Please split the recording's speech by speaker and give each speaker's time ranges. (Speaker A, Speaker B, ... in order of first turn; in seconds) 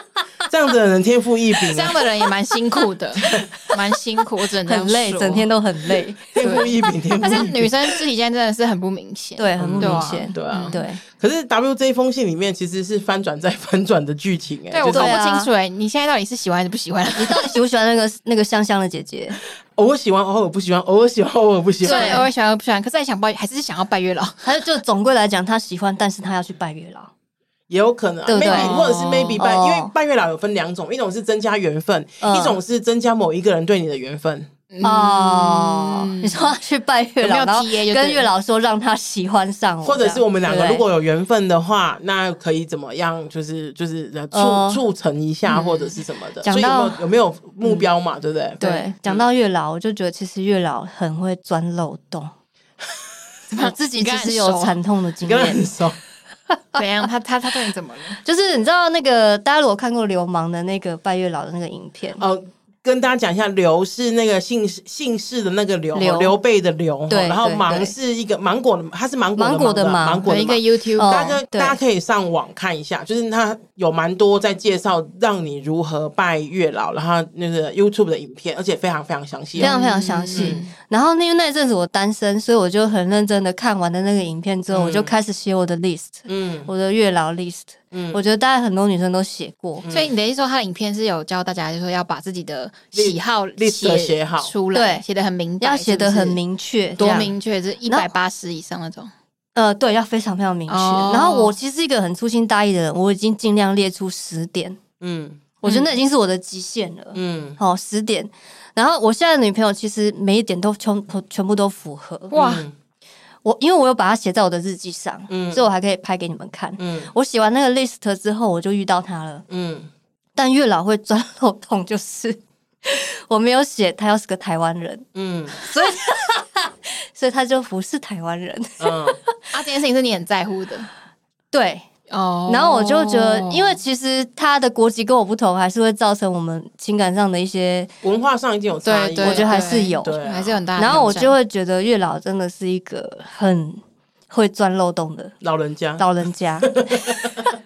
Speaker A: 0.5-2.0, 3.2-3.7, 6.3-7.8, 9.6-15.2, 19.8-22.2, 27.7-34.5, 39.8-49.2, 55.2-56.0, 62.1-79.8, 80.3-80.7, 84.7-85.2, 86.3-86.7, 87.9-88.2, 89.8-90.1, 92.9-94.5, 105.0-105.4, 107.1-107.6, 112.3-112.7, 115.3-115.7, 116.8-117.1, 119.5-119.9, 125.1-125.6, 128.8-129.2, 138.0-141.2, 145.4-146.1, 146.6-147.4
Speaker B: 1.7-5.5, 6.3-10.8, 14.7-17.5, 21.8-24.6, 28.4-29.4, 34.7-36.5, 37.2-38.3, 40.5-40.8, 45.5-46.0, 47.6-47.9, 48.6-48.9, 53.5-54.8, 56.7-58.2, 70.2-71.2, 79.5-80.7, 89.9-96.4, 97.0-99.1, 100.7-101.5, 105.6-105.9, 112.3-112.6, 129.5-130.9, 132.1-133.8, 138.8-141.3
Speaker C: 4.7-6.7, 9.4-11.0, 14.9-15.5, 17.1-19.4, 21.8-22.3, 24.4-27.1, 28.2-28.8, 29.4-29.9, 32.2-32.6, 34.8-40.8, 44.3-44.8, 46.4-47.1, 48.6-52.3, 53.6-55.7, 58.2-62.2, 65.9-66.4, 67.1-67.9, 69.3-70.3, 71.0-71.8, 79.6-89.8, 94.7-95.0, 95.6-98.1, 99.5-104.8, 105.6-112.3, 113.4-119.4, 120.3-129.4, 131.5-131.8, 132.5-137.9, 139.2-140.2, 140.8-145.3, 146.0-147.6